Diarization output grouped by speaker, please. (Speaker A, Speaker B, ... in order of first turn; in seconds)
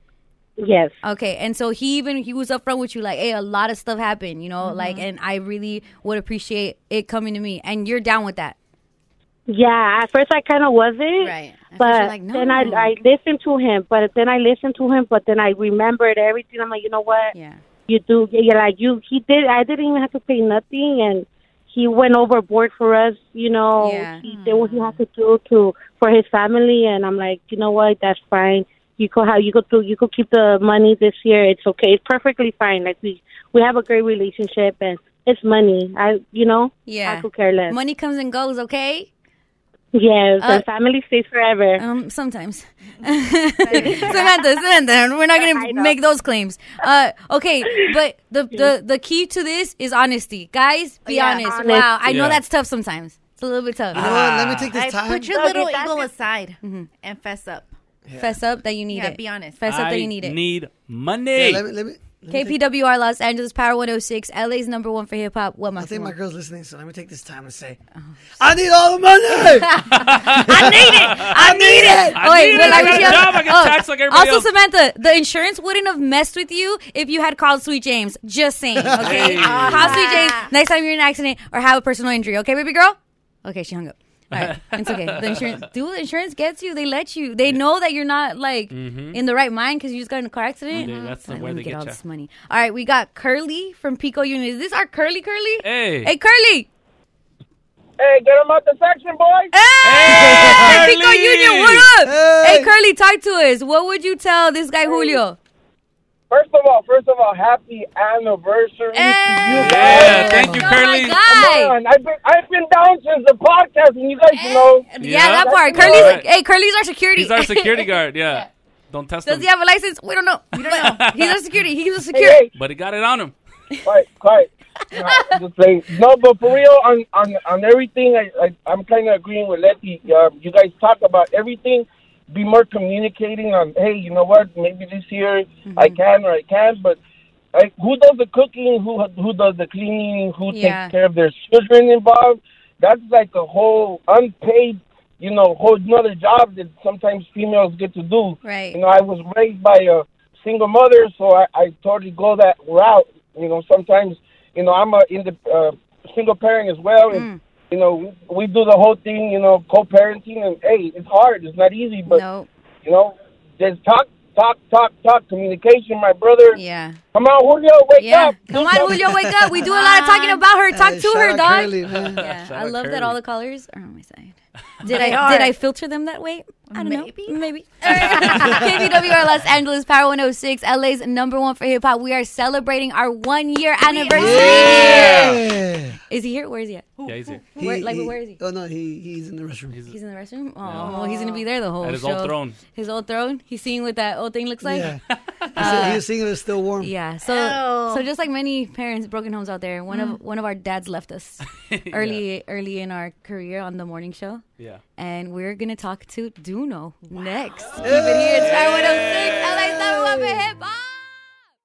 Speaker A: 0.6-0.9, 9.5-17.3, 17.9-37.8, 39.9-41.8, 43.8-44.3, 45.4-46.0, 51.4-52.0, 55.3-56.0
Speaker B: 1.0-8.6, 11.2-12.9, 17.3-17.6, 23.8-24.3, 36.9-39.1, 40.4-40.7, 41.8-54.1, 56.6-56.9, 58.2-60.4, 62.3-66.1, 69.6-96.7, 99.5-105.4, 108.9-111.7, 114.3-118.4, 119.2-122.4, 125.0-125.3, 135.6-136.0, 140.5-140.9, 148.4-148.8, 157.1-157.4, 162.1-162.5, 166.5-167.0, 168.0-185.4, 186.1-186.9, 187.5-188.4, 189.9-194.9, 195.5-196.0, 196.8-204.4, 205.0-211.0
Speaker C: 4.6-5.1, 24.2-25.0, 43.6-44.4, 51.0-51.7, 54.7-57.7, 58.9-59.6, 79.2-80.5, 90.7-91.1, 120.5-121.1, 169.7-170.4, 174.8-175.5, 176.7-178.8, 183.8-185.2, 190.7-191.4, 197.2-198.1, 199.9-200.2
Speaker D: 52.0-52.4, 53.9-54.7, 59.6-61.6, 69.9-71.5, 72.1-74.5, 79.0-80.2, 84.3-85.6, 88.7-89.2, 90.7-92.0, 95.6-96.1, 99.8-101.9, 109.5-111.2, 115.0-116.2, 117.2-119.5, 120.6-121.4, 122.5-123.3, 171.9-173.2, 184.2-185.4, 187.0-187.4, 189.7-190.0, 190.6-190.9, 191.8-192.6, 201.7-202.2, 208.4-210.0
Speaker E: 53.9-55.5, 58.0-58.4, 61.4-62.6, 65.8-67.8, 68.4-73.2, 78.8-79.1, 100.1-100.8, 102.0-102.7, 110.3-110.6, 168.5-169.7, 170.7-172.2, 184.1-185.9, 187.6-189.8, 194.6-195.0, 195.5-196.9, 207.8-210.2
Speaker F: 98.0-99.5, 104.9-105.2, 106.3-110.5, 111.1-116.2, 122.1-122.5, 123.8-137.0, 137.5-162.2, 162.8-166.6, 167.1-169.0